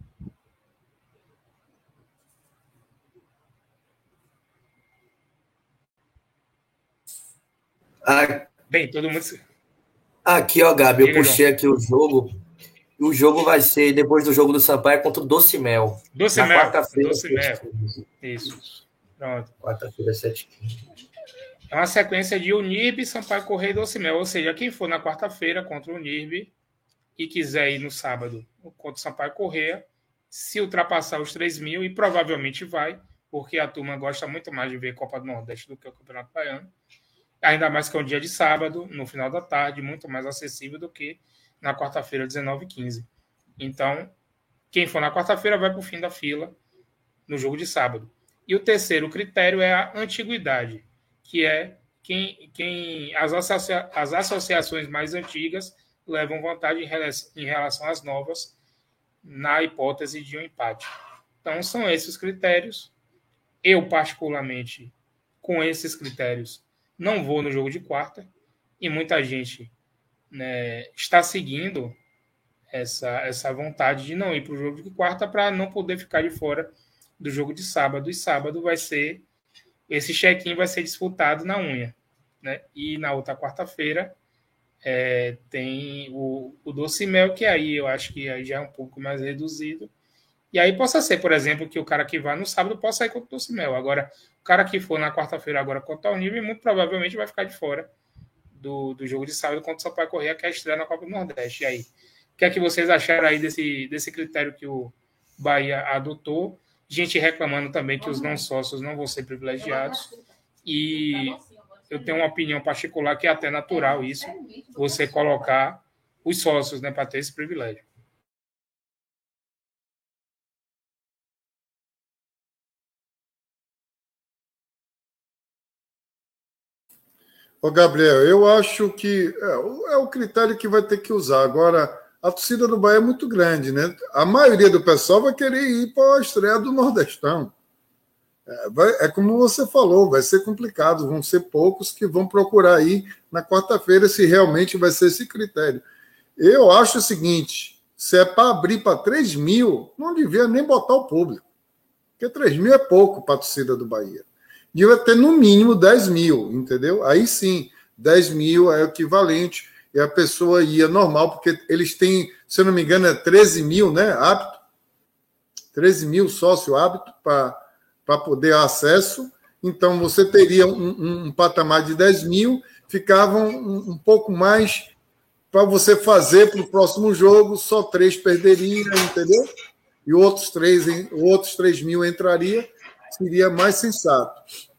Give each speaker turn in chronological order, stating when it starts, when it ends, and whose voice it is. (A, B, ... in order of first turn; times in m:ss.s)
0:08.0-0:08.5 A
0:08.7-0:09.4 B
0:10.2-0:12.4 A
0:11.0-0:11.4 B
0:13.0-0:18.0 A
0:16.1-0:17.6 B
0:18.2-0:19.5 B
0:19.6-0:20.8 A
0:21.7-0:26.5 B
0:27.2-0:36.7 B
0:37.4-0:43.1 B
0:43.6-0:44.1 B
0:44.7-0:46.6 B
0:47.3-0:58.6 B
0:59.2-1:00.9 B
1:01.4-1:02.9 B
1:03.6-1:08.3 B
1:08.8-1:09.7 B
1:10.3-1:12.0 B
1:12.7-1:19.2 B
1:19.9-1:24.2 B
1:24.8-1:29.9 B
1:30.5-1:37.9 B
1:38.5-1:50.1 B
1:50.6-1:57.8 B
2:07.6-2:17.5 C
2:18.5-2:25.8 C
2:26.4-2:31.4 C
2:32.2-2:44.6 C
2:45.7-2:54.9 C
2:55.5-2:59.4 C
3:00.1-3:04.4 C